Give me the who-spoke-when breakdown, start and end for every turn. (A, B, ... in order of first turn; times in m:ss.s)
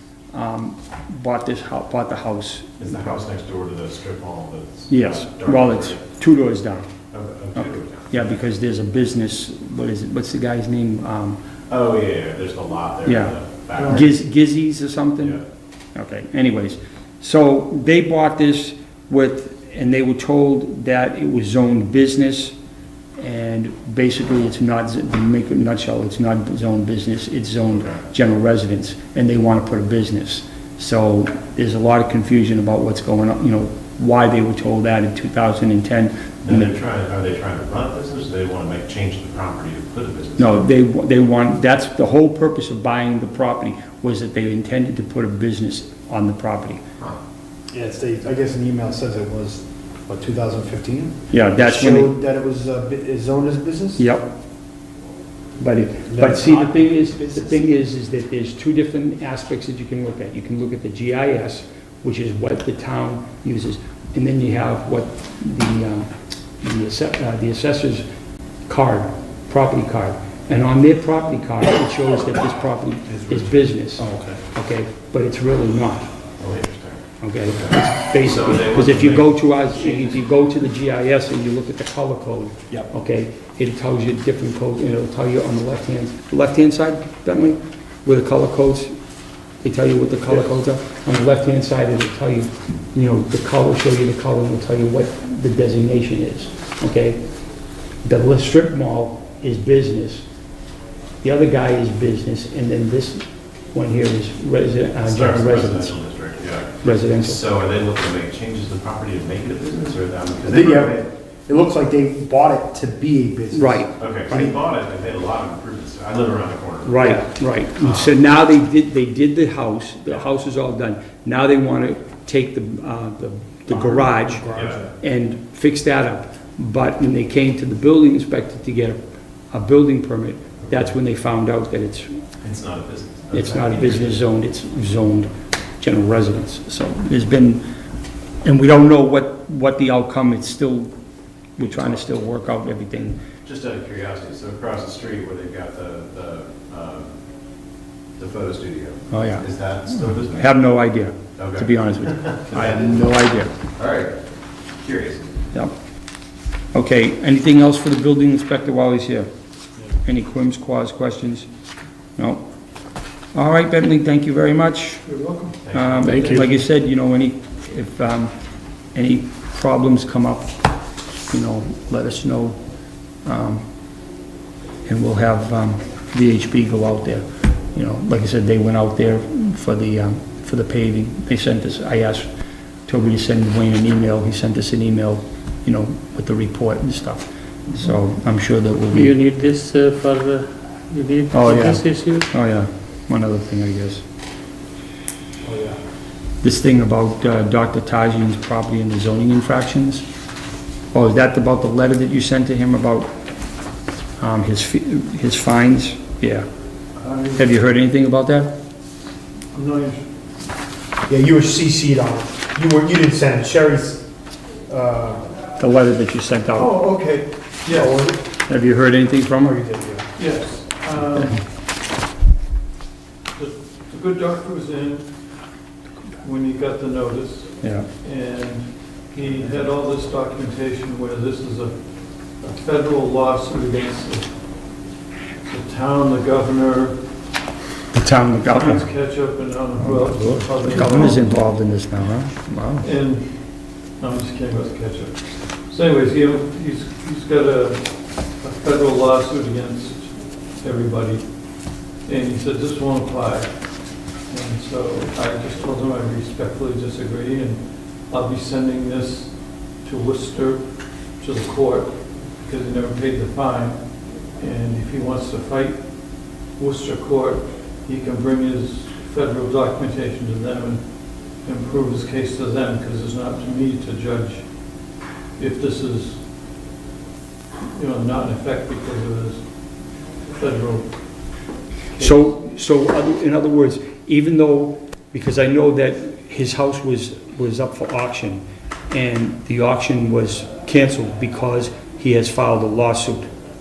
0:00.3-0:03.2 A
0:02.8-0:06.0 B
0:04.9-0:06.9 A
0:07.1-0:08.3 B
0:07.5-0:11.4 A
0:11.7-0:14.1 B
0:13.0-0:15.4 A
0:13.8-0:14.0 C
0:15.9-0:22.5 A
0:23.2-0:36.7 A
0:27.7-0:28.0 B
0:36.4-0:40.7 B
0:40.4-0:46.8 A
0:47.7-0:54.0 C
0:51.3-0:52.2 A
0:54.0-0:54.3 A
0:55.6-1:08.0 A
0:56.1-0:57.6 C
1:08.7-1:16.1 A
1:13.1-1:14.4 C
1:16.4-1:20.2 B
1:17.2-1:28.9 A
1:29.6-1:37.2 A
1:38.0-1:40.2 A
1:41.2-1:46.0 A
1:45.0-1:51.0 B
1:46.8-1:47.4 A
1:50.4-1:54.6 C
1:53.5-1:53.9 A
1:54.0-1:57.0 B
1:56.8-2:04.4 A
1:57.0-1:57.3 C
1:57.8-1:58.2 B
2:03.7-2:04.9 C
2:04.5-2:04.8 B
2:05.0-2:09.0 A
2:09.5-2:12.2 A
2:12.4-2:14.2 B
2:13.3-2:17.6 A
2:18.4-2:20.9 A
2:21.6-2:23.2 A
2:23.4-2:27.1 B
2:28.2-2:30.5 B
2:29.1-2:33.5 A
2:31.4-2:33.0 B
2:33.8-2:34.2 B
2:34.7-2:35.5 B
2:36.7-2:39.3 A
2:40.0-2:41.5 A
2:42.2-2:42.4 A
2:43.3-2:45.0 A
2:45.0-2:46.5 D
2:45.6-2:46.1 B
2:45.7-2:48.3 A
2:46.0-2:46.5 C
2:48.9-2:50.5 A
2:51.3-2:52.6 A
2:53.2-2:53.6 A
2:54.8-3:02.3 A
3:02.9-3:09.1 A
3:08.9-3:12.3 E
3:11.3-3:14.0 A
3:15.4-3:15.8 C
3:16.4-3:20.0 A
3:20.9-3:23.1 A
3:24.2-3:26.5 A
3:27.0-3:27.5 D
3:27.4-3:28.5 A
3:29.5-3:30.1 D
3:31.1-3:34.1 C
3:34.7-3:35.2 C
3:35.6-3:36.7 A
3:36.6-3:37.9 D
3:37.6-3:38.2 C
3:38.5-3:39.6 A
3:39.4-3:40.1 C
3:40.2-3:41.4 D
3:43.3-3:45.1 D
3:46.2-3:54.4 D
3:47.6-3:47.9 A
3:55.4-3:57.0 D
3:57.9-3:58.8 A
3:58.4-4:01.4 D
3:59.8-4:02.8 A
4:02.8-4:34.8 D
4:35.4-4:36.2 D
4:37.6-4:42.3 D
4:42.0-4:53.3 A